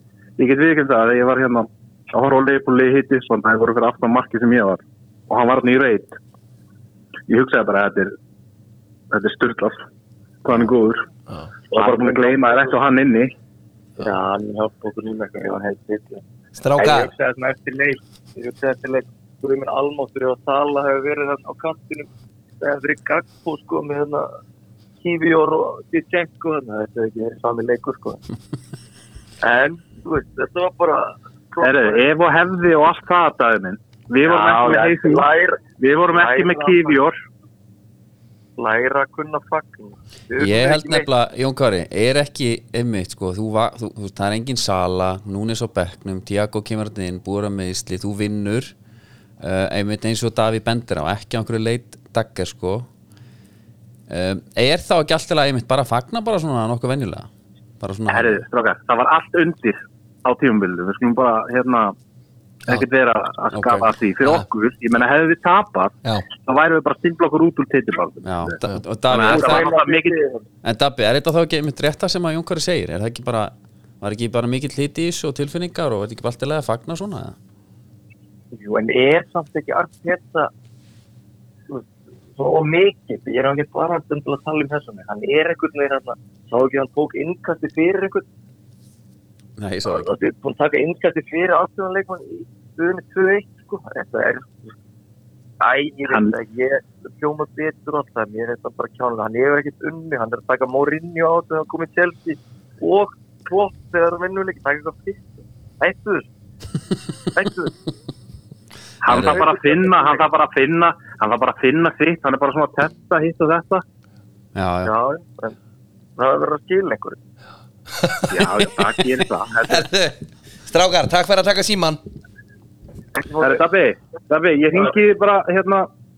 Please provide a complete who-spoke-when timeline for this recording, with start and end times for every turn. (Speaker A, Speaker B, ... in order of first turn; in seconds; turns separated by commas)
Speaker A: 0.4-6.2, Speaker A: 7.3-8.1, Speaker A: 9.1-9.8, Speaker A: 10.4-11.0, Speaker B: 11.7-12.8, Speaker A: 11.7-13.3, Speaker B: 14.0-16.2, Speaker C: 16.6-17.1, Speaker B: 16.8-22.1, Speaker B: 22.6-24.3, Speaker B: 25.0-28.2, Speaker B: 29.4-32.1, Speaker A: 31.6-35.3, Speaker B: 34.2-37.0, Speaker A: 35.8-37.2, Speaker B: 38.6-41.1, Speaker D: 40.4-48.7, Speaker D: 49.4-52.9, Speaker D: 54.1-57.3, Speaker D: 57.8-58.4, Speaker A: 58.1-62.0, Speaker A: 62.7-68.6, Speaker D: 63.5-63.9, Speaker D: 68.2-69.7, Speaker A: 69.1-70.2, Speaker B: 69.1-70.4, Speaker D: 70.6-77.4, Speaker B: 78.5-80.5, Speaker B: 82.4-88.2, Speaker D: 89.6-90.1, Speaker B: 89.8-94.7, Speaker B: 95.6-106.3, Speaker A: 96.1-96.3, Speaker B: 107.3-107.8, Speaker A: 109.0-113.8, Speaker D: 109.1-109.4, Speaker B: 109.1-110.2, Speaker D: 114.5-114.9, Speaker B: 114.8-115.6, Speaker B: 116.2-117.2, Speaker C: 118.0-118.6, Speaker A: 118.3-119.9, Speaker C: 119.7-122.0, Speaker B: 123.2-123.6, Speaker A: 123.4-125.9